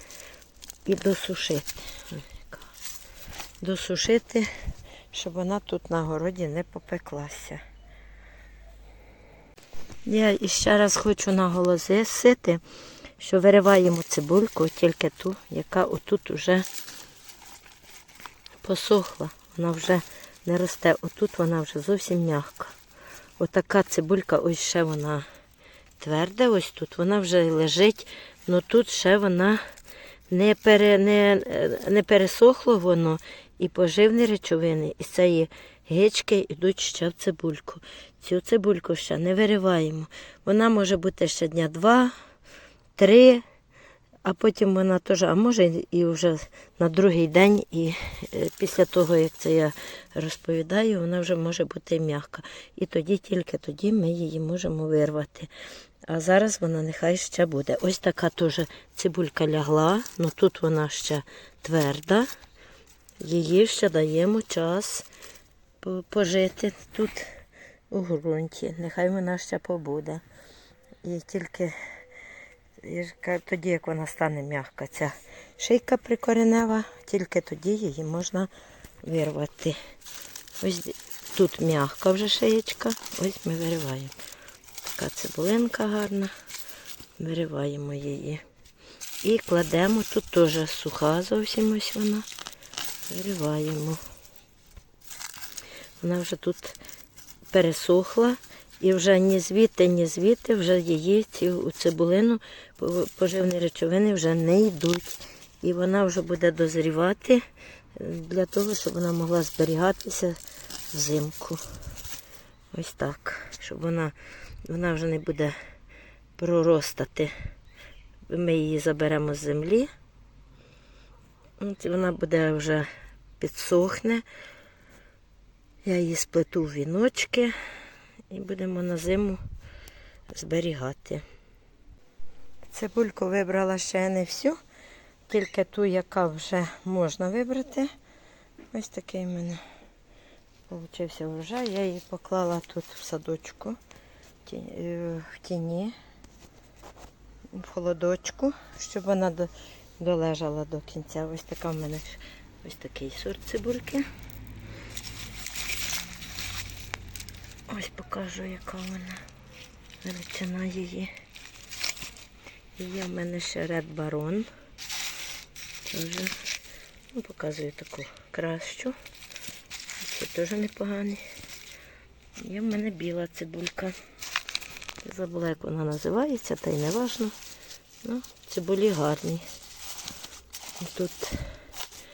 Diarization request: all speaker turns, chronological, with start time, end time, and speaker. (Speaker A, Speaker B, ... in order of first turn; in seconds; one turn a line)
Speaker A: 0.9-2.7
Speaker A: 3.6-4.5
Speaker A: 5.1-7.6
Speaker A: 10.1-12.6
Speaker A: 13.2-16.6
Speaker A: 18.6-22.8
Speaker A: 23.4-25.2
Speaker A: 26.0-29.6
Speaker A: 30.3-42.1
Speaker A: 43.0-43.4
Speaker A: 44.2-55.5
Speaker A: 56.1-62.3
Speaker A: 63.2-65.1
Speaker A: 65.8-67.3
Speaker A: 67.9-70.2
Speaker A: 71.0-71.8
Speaker A: 72.8-78.5
Speaker A: 79.0-79.8
Speaker A: 80.6-84.1
Speaker A: 84.8-86.3
Speaker A: 87.2-88.4
Speaker A: 89.2-92.3
Speaker A: 93.1-94.0
Speaker A: 96.0-96.8
Speaker A: 97.5-107.4
Speaker A: 108.0-110.4
Speaker A: 110.9-111.6
Speaker A: 112.7-114.1
Speaker A: 114.7-115.5
Speaker A: 116.4-117.3
Speaker A: 118.3-119.9
Speaker A: 121.6-122.9
Speaker A: 123.4-124.2
Speaker A: 125.8-127.5
Speaker A: 128.3-129.4
Speaker A: 130.3-131.2
Speaker A: 132.7-134.6
Speaker A: 135.3-137.9
Speaker A: 138.7-139.6
Speaker A: 140.7-143.8
Speaker A: 144.4-145.9
Speaker A: 147.5-154.1
Speaker A: 157.7-159.2
Speaker A: 160.0-161.1
Speaker A: 162.8-164.5
Speaker A: 165.9-166.3
Speaker A: 167.1-168.9
Speaker A: 170.0-171.2
Speaker A: 172.4-173.9
Speaker A: 175.0-177.3
Speaker A: 178.0-179.5
Speaker A: 180.8-181.5